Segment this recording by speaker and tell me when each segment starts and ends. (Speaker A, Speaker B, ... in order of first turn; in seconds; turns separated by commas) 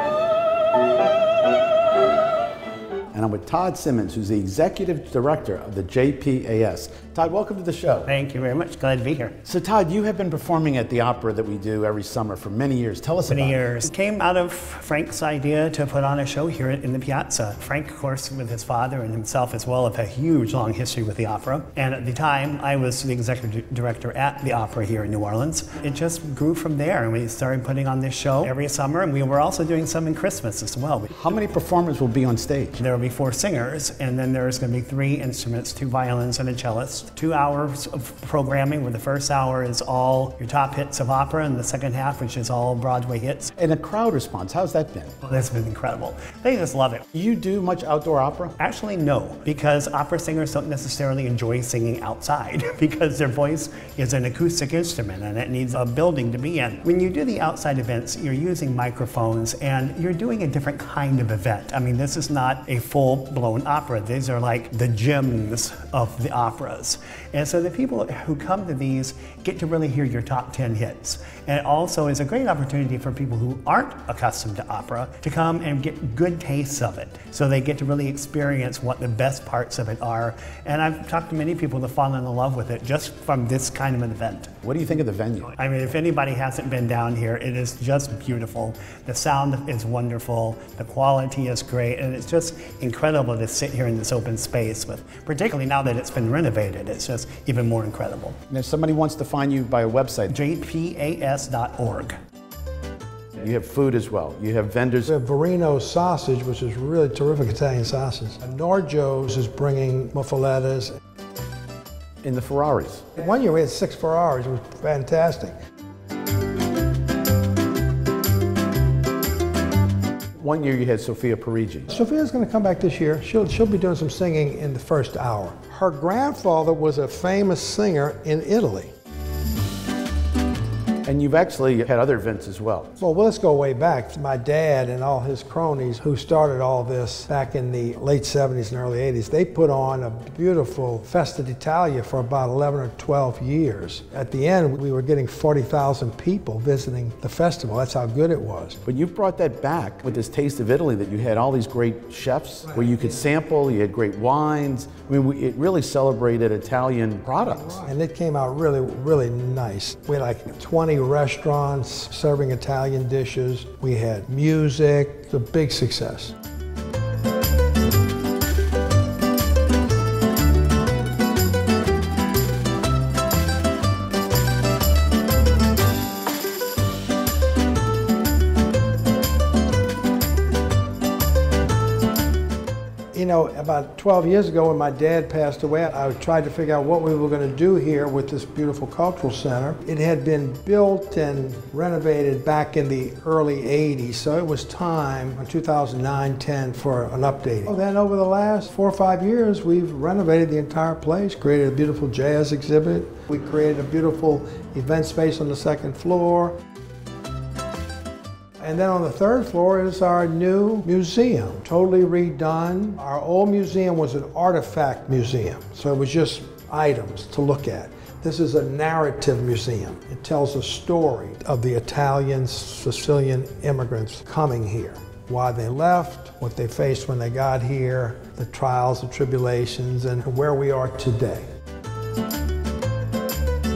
Speaker A: 3.1-8.1, Speaker B: 8.1-9.4, Speaker A: 9.4-13.9, Speaker B: 13.3-31.2, Speaker A: 31.1-32.8, Speaker B: 32.8-43.5, Speaker A: 43.5-45.1, Speaker B: 45.2-47.0, Speaker A: 47.1-48.6, Speaker B: 48.6-84.5, Speaker A: 84.6-85.5, Speaker B: 85.5-98.4, Speaker A: 98.5-100.3, Speaker B: 100.3-102.2, Speaker A: 103.3-105.1, Speaker C: 105.0-111.0, Speaker A: 112.2-113.1, Speaker C: 113.2-115.5, Speaker A: 120.4-121.9, Speaker C: 121.9-128.9, Speaker A: 131.0-132.9, Speaker C: 133.0-148.8, Speaker A: 148.8-157.8, Speaker C: 157.7-166.3, Speaker C: 183.1-206.6, Speaker C: 208.6-231.5